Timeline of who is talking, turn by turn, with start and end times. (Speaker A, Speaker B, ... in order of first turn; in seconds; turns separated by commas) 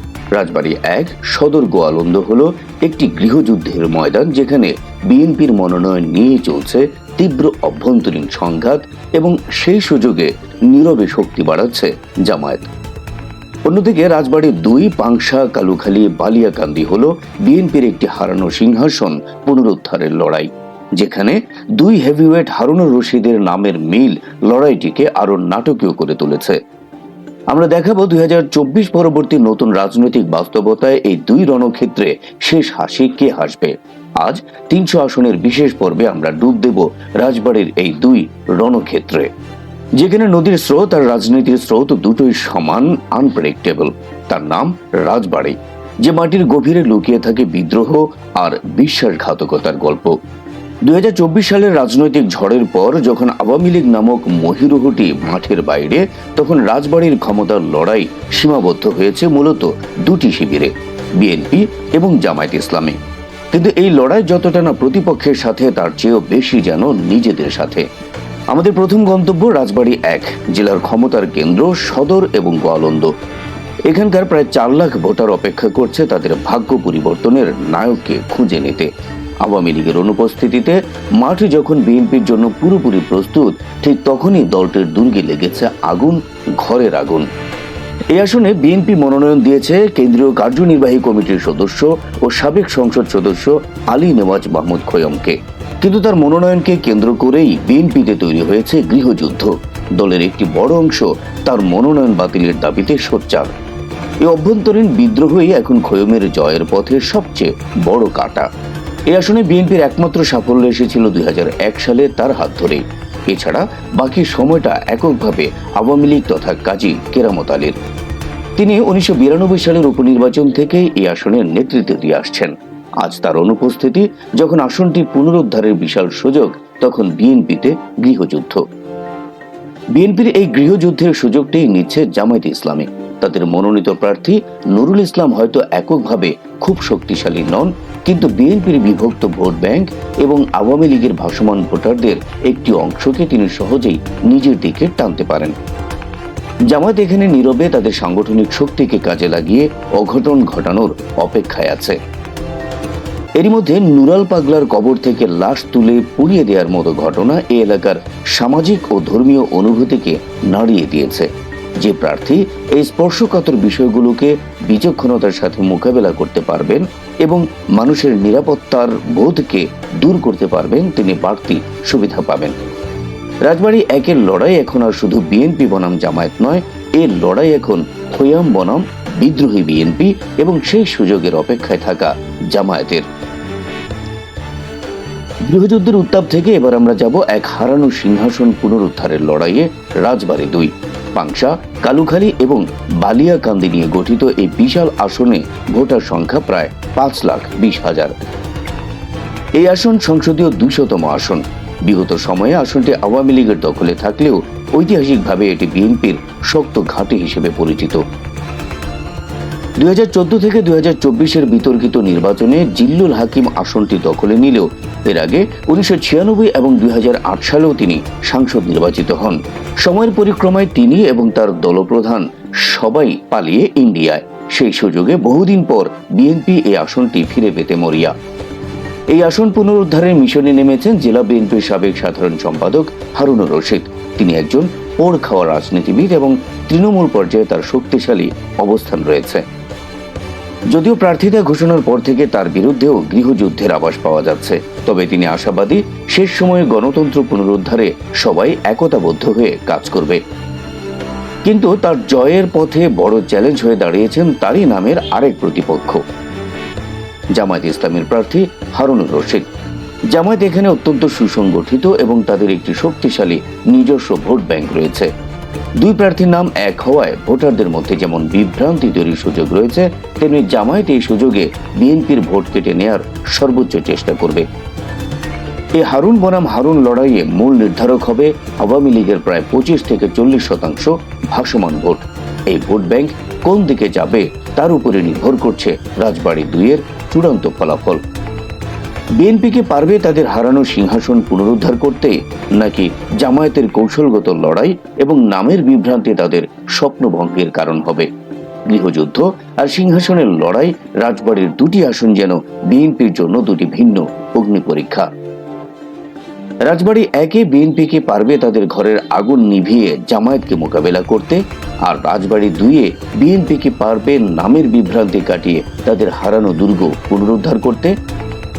Speaker A: 0.3-12.7, Speaker A: 13.7-26.6, Speaker A: 27.5-39.3, Speaker A: 40.0-50.1, Speaker A: 50.8-63.0, Speaker A: 63.5-67.8, Speaker A: 68.5-73.1, Speaker A: 73.9-78.9, Speaker A: 79.4-87.3, Speaker A: 88.1-103.5, Speaker A: 104.2-108.5, Speaker A: 109.1-117.8, Speaker A: 118.6-128.6, Speaker A: 129.9-145.5, Speaker A: 146.7-151.9, Speaker A: 153.4-172.6, Speaker A: 173.4-183.1, Speaker A: 185.4-198.2, Speaker A: 199.6-208.0, Speaker A: 209.8-228.1, Speaker A: 229.1-239.4, Speaker A: 240.7-250.2, Speaker A: 251.4-256.0, Speaker A: 257.3-259.5, Speaker A: 260.1-265.1, Speaker A: 265.8-274.4, Speaker A: 275.8-288.0, Speaker A: 289.2-298.1, Speaker A: 298.7-305.1, Speaker A: 306.6-317.9